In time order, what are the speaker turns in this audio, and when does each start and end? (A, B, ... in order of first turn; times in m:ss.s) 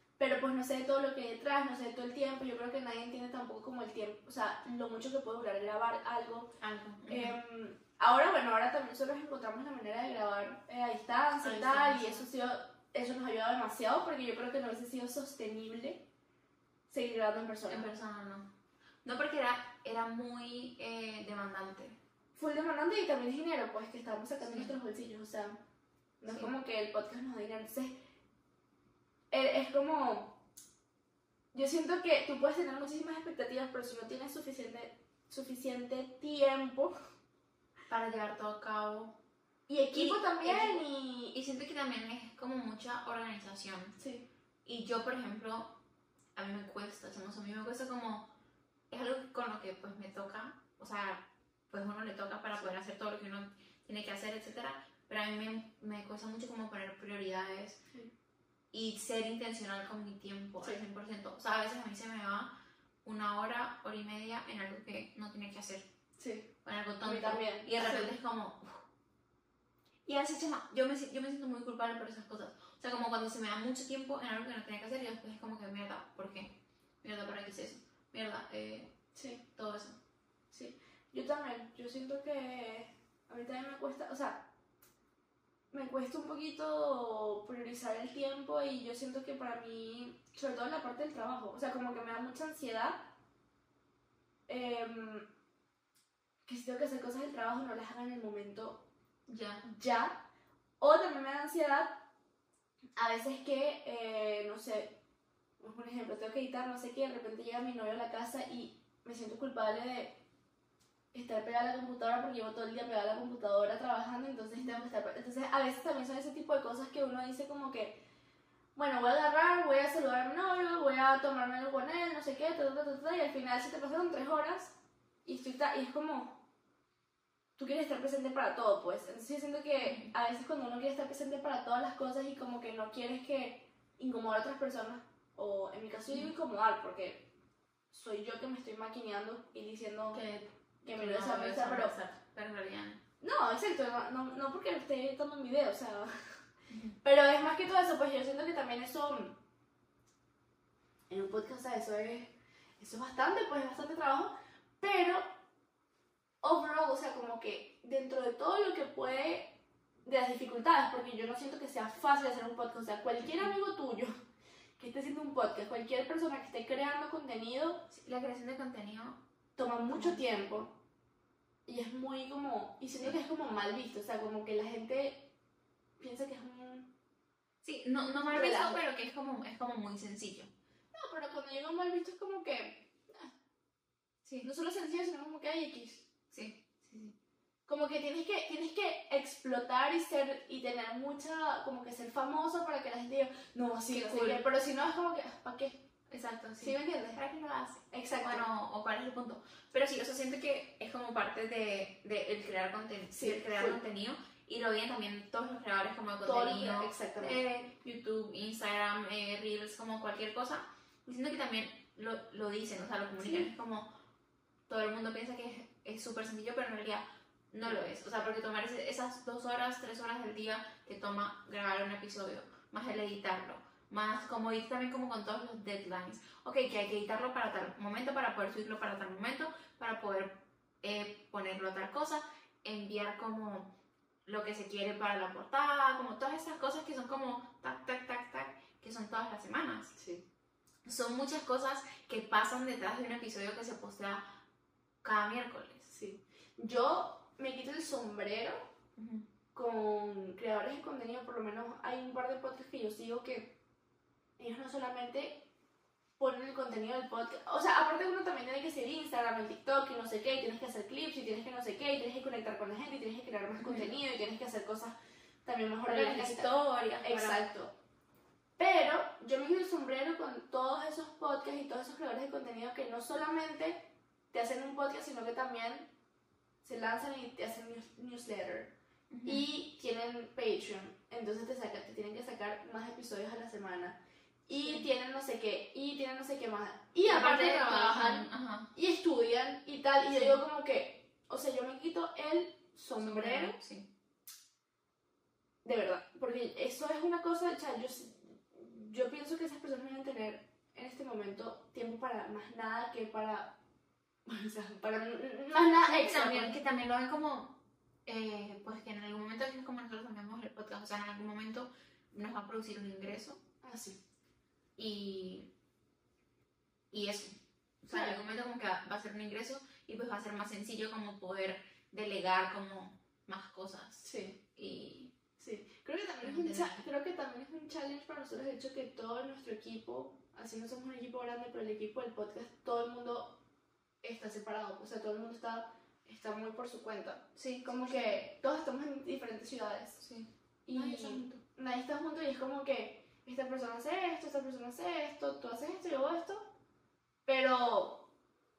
0:00.2-0:06.5 A
0:06.6-0:07.4 B
0:07.1-0:16.0 A
0:11.4-0:12.3 B
0:16.9-0:17.9 A
0:17.7-0:18.5 B
0:19.0-0:22.0 B
0:22.4-0:25.6 A
0:24.4-0:24.8 B
0:26.2-0:28.0 A
0:29.3-0:30.4 A
0:31.5-0:36.9 A
0:37.9-0:39.2 B
0:39.7-0:41.4 A
0:39.9-0:44.0 B
0:44.0-0:44.3 A
0:44.6-0:45.7 B
0:46.4-0:48.3 B
0:48.9-0:57.8 B
0:58.7-1:02.5 B
1:03.0-1:05.9 B
1:06.2-1:06.5 A
1:06.6-1:08.8 B
1:07.0-1:08.1 A
1:10.1-1:18.9 B
1:19.2-1:19.4 A
1:19.6-1:20.0 B
1:20.5-1:24.4 A
1:25.7-1:33.1 A
1:34.5-1:35.3 A
1:36.5-1:38.8 A
1:39.3-1:39.6 B
1:39.6-1:40.2 A
1:40.8-1:42.0 A
1:43.0-1:45.0 A
1:45.6-1:50.2 A
1:51.1-1:58.0 A
1:54.6-1:54.8 B
1:58.8-2:04.7 A
2:05.2-2:06.4 A
2:07.6-2:17.3 A
2:09.8-2:10.1 B
2:17.9-2:20.2 A
2:20.1-2:23.0 B
2:20.8-2:22.0 A
2:23.2-2:26.1 A
2:26.7-2:27.0 B
2:27.0-2:29.4 A
2:31.1-2:35.3 A
2:36.4-2:44.2 A
2:43.3-2:43.6 B
2:44.8-2:47.9 A
2:47.9-2:49.2 B
2:49.6-2:50.7 A
2:49.9-2:50.2 B
2:51.7-2:55.3 A
2:56.0-2:56.9 A
2:57.6-3:00.5 B
2:58.3-2:58.8 A
3:00.9-3:03.3 A
3:04.4-3:06.1 A
3:06.3-3:07.1 B
3:07.7-3:15.8 A
3:13.9-3:14.4 B
3:16.1-3:33.9 B
3:16.6-3:17.2 A
3:17.9-3:18.5 A
3:23.1-3:23.8 A
3:26.2-3:27.7 A
3:33.2-3:33.5 A
3:34.7-3:53.7 B
3:37.6-3:38.0 A
3:54.3-3:59.9 B
4:00.0-4:00.2 A
4:00.9-4:04.2 B
4:05.0-4:05.9 B
4:05.9-4:08.6 A
4:09.0-4:09.3 B
4:09.5-4:13.5 A
4:14.4-4:15.4 A
4:16.2-4:27.7 A
4:23.6-4:23.9 B
4:25.8-4:27.4 B
4:28.6-4:35.9 A
4:36.6-4:53.6 A
4:39.1-4:39.5 B
4:44.6-4:44.8 B
4:47.0-4:48.7 B
4:50.1-4:50.4 B
4:53.0-4:53.9 B
4:55.6-5:03.6 A
5:04.3-5:06.6 A
5:05.8-5:13.4 B
5:13.6-5:14.0 A
5:14.8-5:15.5 B
5:16.9-5:25.1 B
5:17.9-5:18.2 A
5:24.0-5:24.4 A
5:25.4-5:33.4 A
5:26.2-5:26.8 B
5:34.0-5:40.0 A
5:37.4-5:38.2 B
5:40.0-5:41.4 B
5:40.7-5:46.5 A
5:47.3-5:48.1 A